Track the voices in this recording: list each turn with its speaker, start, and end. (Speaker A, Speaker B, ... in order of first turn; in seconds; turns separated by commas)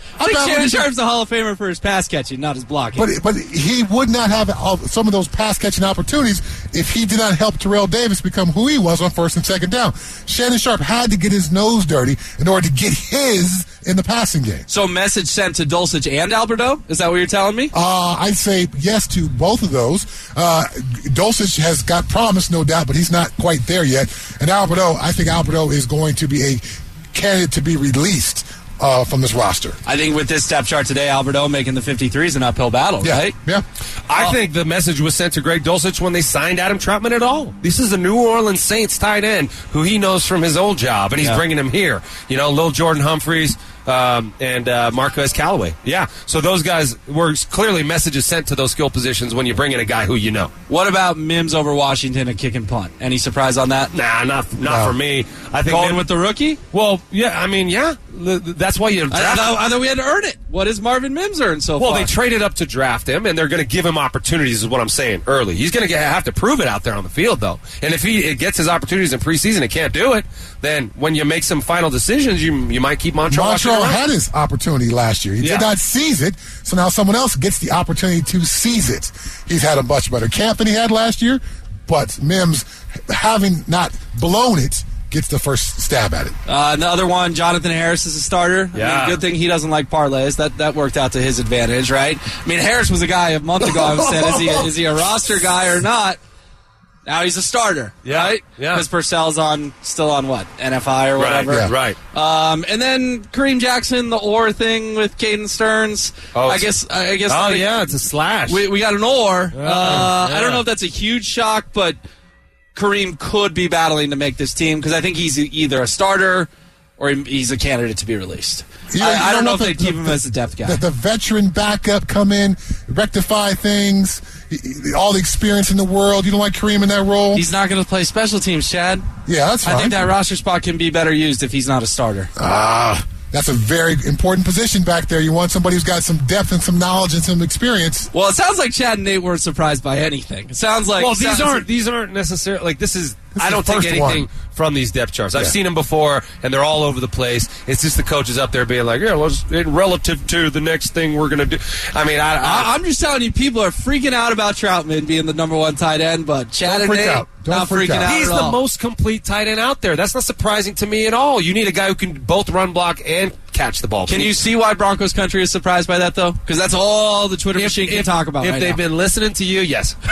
Speaker A: 0.2-3.1, Speaker B: 0.2-0.9, Speaker B: 3.0-14.7, Speaker A: 14.7-17.7, Speaker B: 17.7-29.8, Speaker A: 29.9-33.4, Speaker B: 33.0-33.6, Speaker C: 34.1-50.5, Speaker A: 50.7-53.9, Speaker C: 53.9-56.0, Speaker B: 54.6-55.0, Speaker A: 55.7-56.6, Speaker C: 56.7-59.6, Speaker A: 59.1-62.1, Speaker C: 61.8-74.0, Speaker B: 73.3-86.4, Speaker C: 75.4-75.7, Speaker A: 86.5-96.2, Speaker C: 88.8-89.2, Speaker C: 94.2-94.6, Speaker A: 97.0-107.7, Speaker C: 98.0-98.8, Speaker C: 101.2-102.0, Speaker C: 106.3-106.7, Speaker C: 107.3-108.7, Speaker A: 108.5-112.0, Speaker C: 109.5-110.7, Speaker A: 112.7-120.8, Speaker B: 118.9-127.5, Speaker A: 127.3-129.1, Speaker B: 129.3-130.0, Speaker A: 129.6-132.3, Speaker B: 132.4-138.1, Speaker A: 138.1-141.7, Speaker C: 141.0-152.7, Speaker B: 143.4-144.3, Speaker A: 152.4-158.6, Speaker B: 156.7-158.2, Speaker C: 158.0-164.3, Speaker A: 164.1-168.8, Speaker C: 167.6-170.0